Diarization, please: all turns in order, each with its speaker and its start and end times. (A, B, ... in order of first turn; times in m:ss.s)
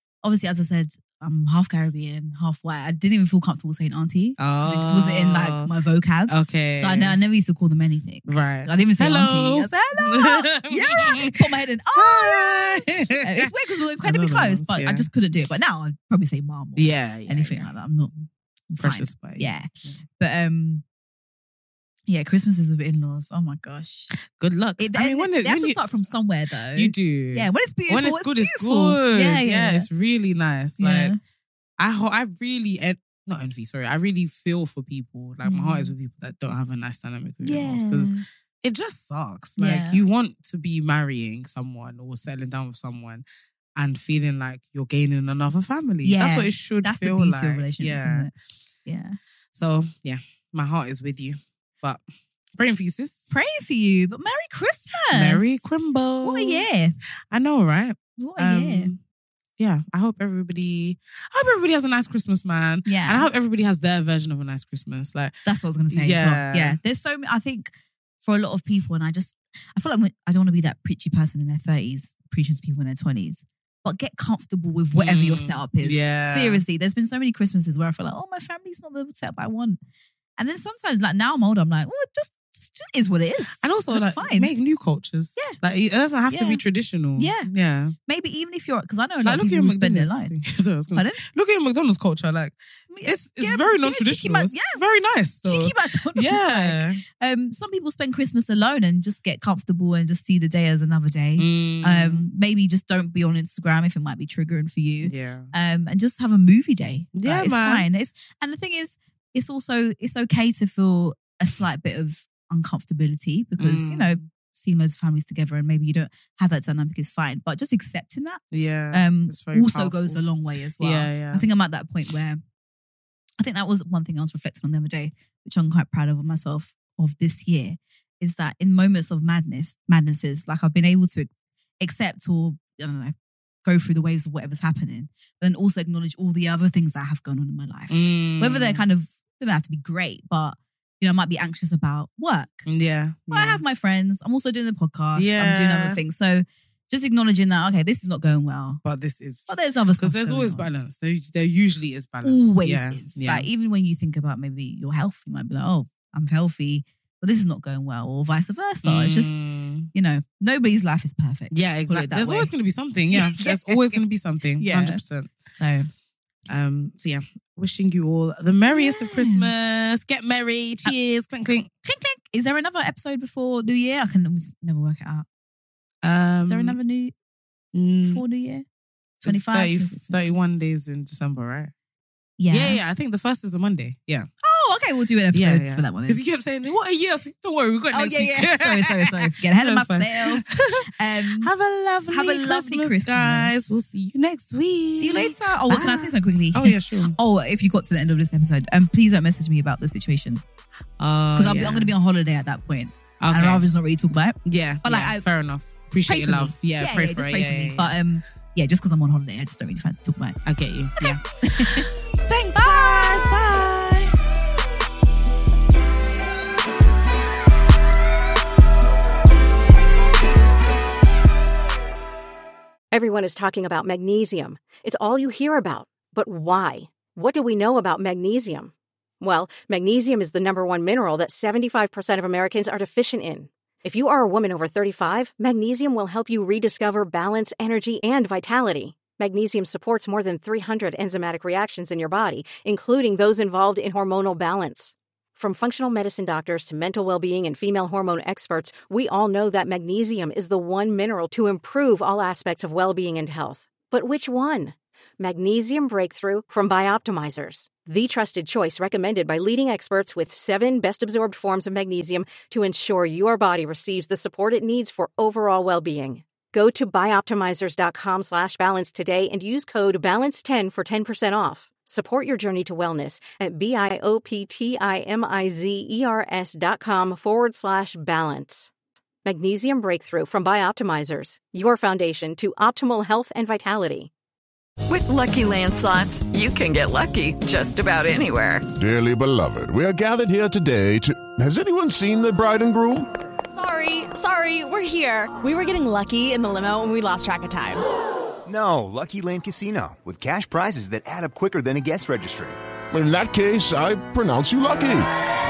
0:00.2-0:20.8 A
0:04.4-0:05.7 B
0:06.3-0:07.2 B
0:08.3-0:15.1 B
0:16.8-0:17.7 B
0:18.8-0:20.0 B
0:22.1-0:24.1 A
0:24.3-0:25.8 B
0:24.8-0:29.9 A
0:26.8-0:31.1 B
0:30.8-0:31.2 A
0:31.8-0:43.2 B
0:35.4-0:35.9 A
0:37.4-0:38.2 A
0:39.6-0:40.0 A
0:43.8-0:48.3 B
0:46.0-0:48.3 A
0:48.8-0:49.2 A
0:49.5-0:52.0 B
0:52.6-0:53.3 B
0:53.3-0:55.7 A
0:55.1-0:56.7 B
0:56.2-0:57.0 A
0:57.3-0:59.0 B
0:58.2-0:58.9 A
0:59.6-1:05.4 B
1:02.9-1:03.3 A
1:05.4-1:19.8 A
1:05.9-1:06.8 B
1:15.0-1:16.6 B
1:20.4-1:24.5 A
1:23.6-1:28.0 B
1:26.3-1:26.6 A
1:27.2-1:27.5 A
1:28.1-1:30.3 A
1:29.2-1:37.0 B
1:30.9-1:31.2 A
1:32.9-1:34.8 A
1:35.4-1:58.4 A
1:41.4-1:42.3 B
1:45.0-1:45.5 B
1:47.1-1:47.9 B
1:53.6-1:54.3 B
1:58.5-2:00.2 B
1:58.9-2:02.4 A
2:00.8-2:01.5 B
2:03.4-2:11.3 A
2:11.8-2:22.7 A
2:17.9-2:18.8 B
2:22.7-2:23.6 B
2:23.3-2:28.8 A
2:25.2-2:26.0 B
2:28.8-2:33.5 B
2:29.5-2:30.7 A
2:32.2-2:39.4 A
2:38.8-2:39.9 B
2:39.9-2:42.5 A
2:41.5-2:45.3 B
2:43.1-2:44.0 A
2:44.6-2:45.0 A
2:45.6-2:45.9 A
2:46.5-2:51.7 B
2:48.7-2:49.5 A
2:51.8-2:55.3 A
2:56.0-2:56.8 B
2:56.4-2:57.1 A
2:57.7-2:58.2 B
2:58.0-2:58.6 A
2:59.2-3:00.3 A
2:59.2-3:01.7 B
3:02.4-3:02.8 A
3:02.5-3:04.3 B
3:04.4-3:06.2 A
3:05.3-3:17.2 B
3:07.9-3:11.5 A
3:12.1-3:13.8 A
3:15.0-3:20.4 A
3:21.0-3:22.0 B
3:21.4-3:25.3 A
3:23.2-3:23.6 B
3:24.4-3:28.0 B
3:26.1-3:30.4 A
3:30.4-3:34.1 B
3:31.0-3:31.9 A
3:32.6-3:32.8 A
3:42.9-4:38.7 C
4:39.2-4:44.1 C
4:44.9-4:48.7 D
4:48.7-4:53.1 E
4:53.5-4:57.8 F
4:58.5-5:02.6 G
5:02.9-5:05.1 E